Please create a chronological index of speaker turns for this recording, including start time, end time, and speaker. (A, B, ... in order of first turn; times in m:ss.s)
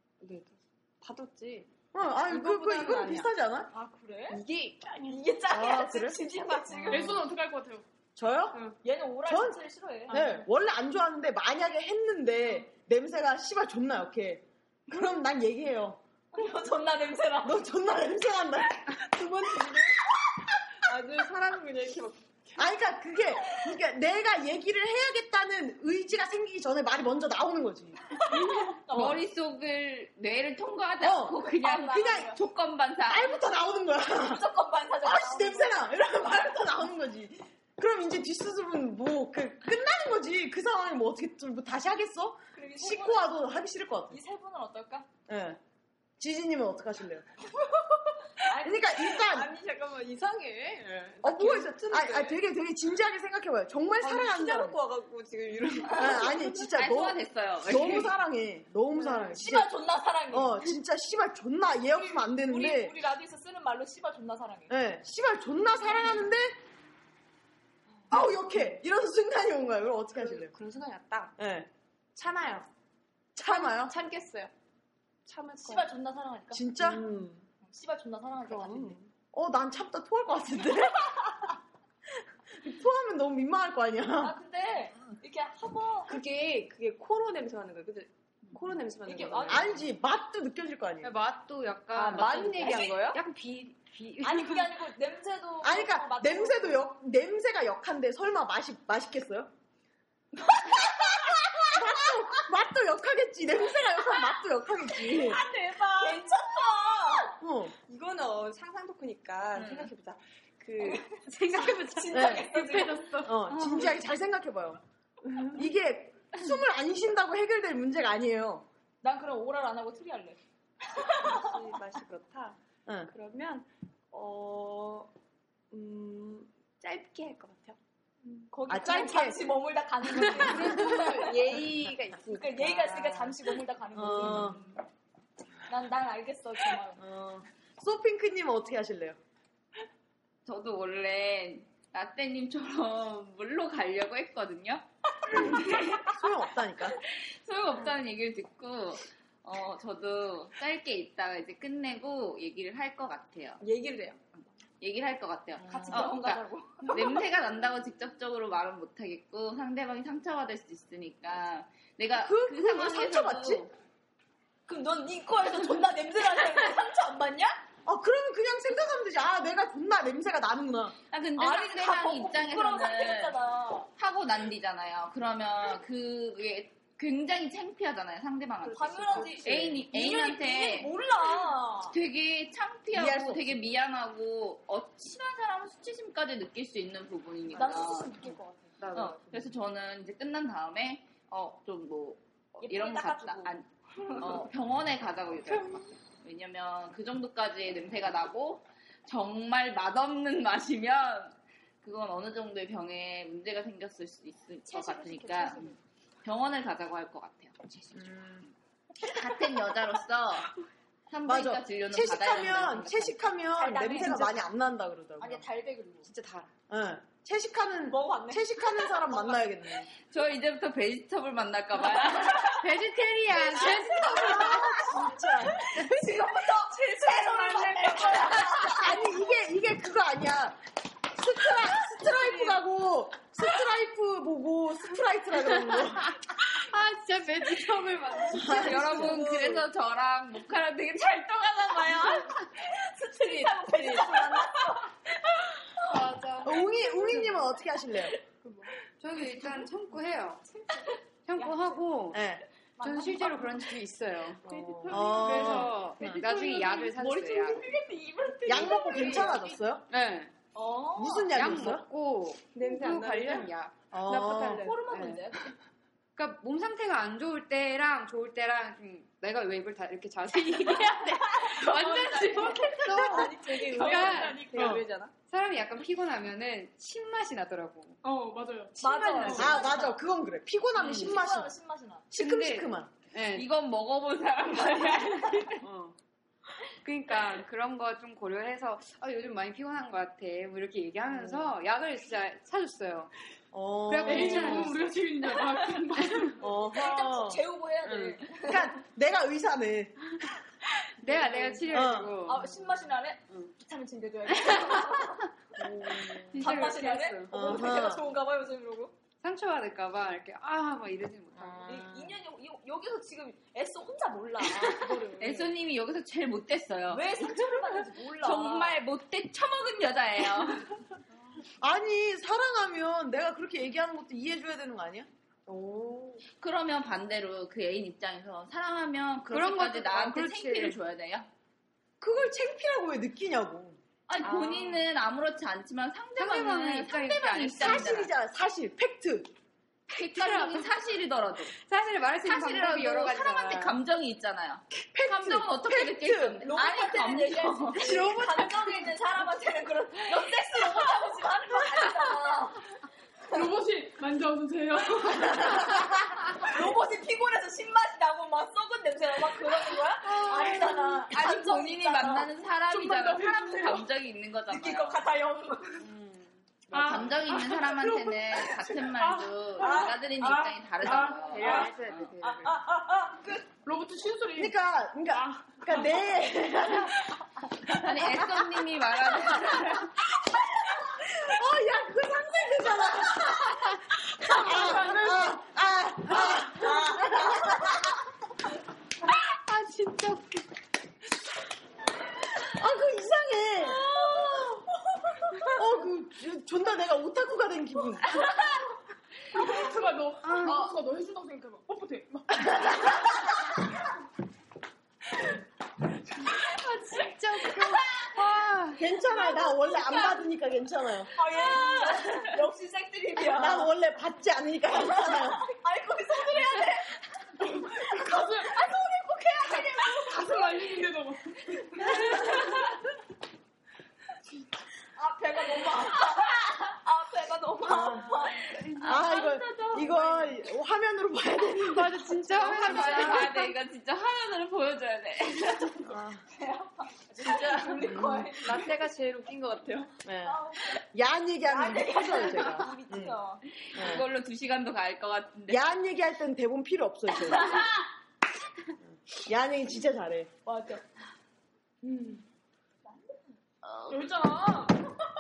0:00.2-0:01.7 A
0:01.9-0:03.7 B
0:02.3-0:03.3 A
0:03.7-0:04.4 C
0:04.3-0:05.2 A
0:05.1-0:07.2 C
0:05.5-0:07.2 B
0:06.9-0:07.8 D
0:08.2-0:08.6 B
0:08.8-0:10.2 C
0:09.3-0:16.0 B
0:10.1-0:10.5 D
0:16.3-0:17.6 C
0:17.4-0:19.7 B
0:19.4-0:19.8 A
0:20.8-0:22.7 A
0:22.6-0:29.0 B
0:28.2-0:29.2 C
0:28.9-0:33.4 E
0:31.0-0:32.4 B
0:31.4-0:32.4 C
0:33.1-0:34.5 B
0:34.1-0:36.0 C
0:35.0-0:44.2 B
0:42.5-0:43.4 C
0:44.1-0:45.1 C
0:45.3-0:45.6 B
0:46.2-0:47.2 B
0:48.4-0:49.1 C
0:48.6-0:49.5 B
0:49.2-0:52.4 A
0:51.2-0:54.8 B
0:54.0-0:56.5 A
0:55.9-0:59.7 B
0:56.7-0:58.1 E
0:59.0-1:00.6 C
1:00.3-1:03.0 B
1:02.1-1:04.7 C
1:04.7-1:06.6 B
1:08.1-1:10.5 B
1:10.2-1:11.4 A
1:11.4-1:11.7 B
1:12.2-1:12.7 A
1:13.4-1:13.9 B
1:13.5-1:14.5 A
1:15.3-1:15.9 A
1:15.6-1:16.6 C
1:16.5-1:17.1 B
1:16.8-1:17.4 A
1:17.6-1:19.0 C
1:18.5-1:19.1 A
1:19.3-1:21.3 B
1:22.6-1:24.4 B
1:24.2-1:26.2 C
1:26.1-1:29.8 A
1:29.1-1:29.8 C
1:29.5-1:31.1 B
1:31.0-1:34.7 F
1:31.9-1:33.2 A
1:34.2-1:36.9 C
1:35.6-1:39.5 B
1:40.9-1:45.4 B
1:45.2-1:46.3 A
1:45.3-1:47.4 C
1:47.4-1:47.7 B
1:47.9-1:51.6 A
1:49.5-1:49.9 E
1:50.8-1:53.2 C
1:51.3-1:53.8 F
1:52.1-1:52.5 B
1:53.2-1:54.8 B
1:55.5-1:58.7 B
1:59.0-2:00.4 C
2:00.9-2:01.5 C
2:01.2-2:05.1 A
2:02.9-2:03.1 B
2:05.7-2:07.8 A
2:08.5-2:11.5 C
2:08.7-2:09.4 B
2:10.4-2:13.4 A
2:10.6-2:11.0 F
2:12.3-2:14.7 C
2:14.0-2:14.6 B
2:15.7-2:17.0 C
2:17.0-2:19.2 B
2:20.5-2:26.0 E
2:25.6-2:27.0 B
2:27.0-2:33.6 E
2:33.6-2:34.2 A
2:34.8-2:43.7 E
2:35.6-2:37.3 C
2:42.2-2:43.7 B
2:44.7-2:47.6 C
2:47.8-2:51.0 B
2:51.1-2:53.4 E
2:51.4-2:53.9 C
2:54.0-3:00.9 E
2:58.6-3:02.0 C
3:01.9-3:08.3 E
3:02.9-3:03.5 B
3:07.5-3:09.2 C
3:08.8-3:09.2 F
3:09.1-3:28.2 E
3:12.6-3:14.5 C
3:24.7-3:25.8 C
3:27.9-3:28.5 B
3:29.0-3:30.5 E
3:31.1-3:33.2 E
3:31.3-3:35.4 B
3:33.6-3:34.4 C
3:35.2-3:36.1 C
3:36.0-3:36.5 F
3:36.7-3:39.9 B
3:37.9-3:39.6 C
3:40.1-3:42.6 E
3:42.4-3:44.8 F
3:43.5-3:49.0 C
3:43.6-3:45.6 B
3:48.6-3:50.6 B
3:51.1-3:56.2 B
3:51.9-3:52.6 C
3:55.5-3:55.8 F
3:56.6-3:59.2 F
3:58.3-3:59.6 B
3:58.4-3:58.7 A
3:58.5-4:02.3 E
4:01.8-4:04.9 C
4:05.8-4:07.4 F
4:06.4-4:08.2 B
4:09.0-4:10.4 F
4:10.4-4:11.8 C
4:11.3-4:12.2 F
4:12.1-4:12.4 B
4:12.8-4:13.8 C
4:12.8-4:17.7 F
4:14.5-4:15.4 A
4:14.5-4:16.3 B
4:16.0-4:19.6 C
4:18.5-4:19.9 B
4:19.9-4:20.3 F
4:20.5-4:21.4 C
4:21.0-4:21.9 B
4:21.3-4:25.3 F
4:22.5-4:23.5 A
4:23.9-4:24.7 B
4:24.0-4:24.8 A
4:24.6-4:25.5 C
4:26.2-4:38.0 F
4:31.3-4:34.8 C
4:31.4-4:32.4 E
4:32.9-4:33.2 B
4:32.9-4:35.1 A
4:34.5-4:34.8 B
4:38.0-4:39.6 D
4:38.8-4:40.0 C
4:39.3-4:41.6 B
4:40.8-4:41.2 F
4:40.8-4:42.1 C
4:42.1-4:42.9 B
4:42.1-4:43.5 F
4:43.3-4:45.6 E
4:46.8-4:53.1 F
4:51.0-4:51.6 B
4:53.5-4:54.8 B
4:53.9-4:54.9 F
4:54.1-4:56.4 D
4:55.3-4:58.8 C
4:56.4-5:00.2 B
5:01.0-5:02.7 F
5:01.1-5:05.2 C
5:01.7-5:02.2 B
5:04.5-5:04.9 F
5:05.6-5:07.7 F
5:05.6-5:06.5 B
5:06.4-5:08.9 C
5:07.3-5:08.0 B
5:09.2-5:11.9 F
5:11.4-5:12.1 B
5:11.6-5:15.5 C
5:14.6-5:20.8 E
5:16.9-5:18.8 C
5:21.6-5:25.1 B
5:25.5-5:26.2 A
5:26.4-5:31.3 E
5:29.3-5:30.8 F
5:32.0-5:34.5 B
5:34.1-5:38.1 E
5:34.2-5:34.6 F
5:36.2-5:38.1 F
5:37.3-5:39.3 B
5:39.9-5:41.6 E
5:39.9-5:40.7 F
5:41.5-5:43.8 F
5:42.2-5:47.9 E
5:44.7-5:46.5 B
5:46.4-5:52.6 C
5:47.8-5:48.3 B
5:53.3-5:55.7 D
5:55.1-6:02.3 C
6:00.3-6:01.0 D
6:01.1-6:05.0 E
6:02.7-6:03.9 D
6:04.5-6:05.9 C
6:05.8-6:06.6 F
6:06.7-6:11.7 D
6:06.7-6:12.1 E
6:09.6-6:10.4 C
6:11.3-6:12.6 F
6:12.2-6:13.5 C
6:13.6-6:14.6 D
6:14.4-6:17.2 B
6:15.1-6:16.2 D
6:17.7-6:20.0 E
6:21.0-6:27.9 B
6:24.4-6:25.3 D
6:29.3-6:30.5 F
6:32.5-6:33.8 B
6:33.9-6:34.6 C
6:35.5-6:38.1 B
6:38.1-6:38.5 E
6:39.3-6:42.6 D
6:40.2-6:40.7 F
6:40.4-6:40.8 E
6:46.6-6:48.8 F
6:48.8-6:51.1 B
6:51.2-6:53.7 C
6:53.2-6:55.5 B
6:55.0-6:57.0 C
6:57.4-6:58.7 D
6:57.8-7:00.9 C
6:59.4-7:02.8 D
7:01.8-7:02.6 C
7:05.0-7:10.3 C
7:07.6-7:08.2 B
7:08.8-7:13.1 B
7:11.6-7:13.5 F
7:12.4-7:15.9 E
7:15.8-7:16.2 B
7:16.3-7:18.7 C
7:17.3-7:17.5 E
7:17.8-7:18.3 B
7:18.0-7:20.0 A
7:20.0-7:20.4 B
7:20.2-7:20.8 C
7:20.9-7:23.2 B
7:21.4-7:23.5 C
7:23.6-7:25.6 E
7:23.7-7:24.1 B
7:25.5-7:27.6 B
7:28.9-7:30.3 B
7:30.5-7:30.8 C
7:31.8-7:32.2 D
7:32.8-7:33.4 C
7:33.7-7:33.9 E
7:33.9-7:34.8 D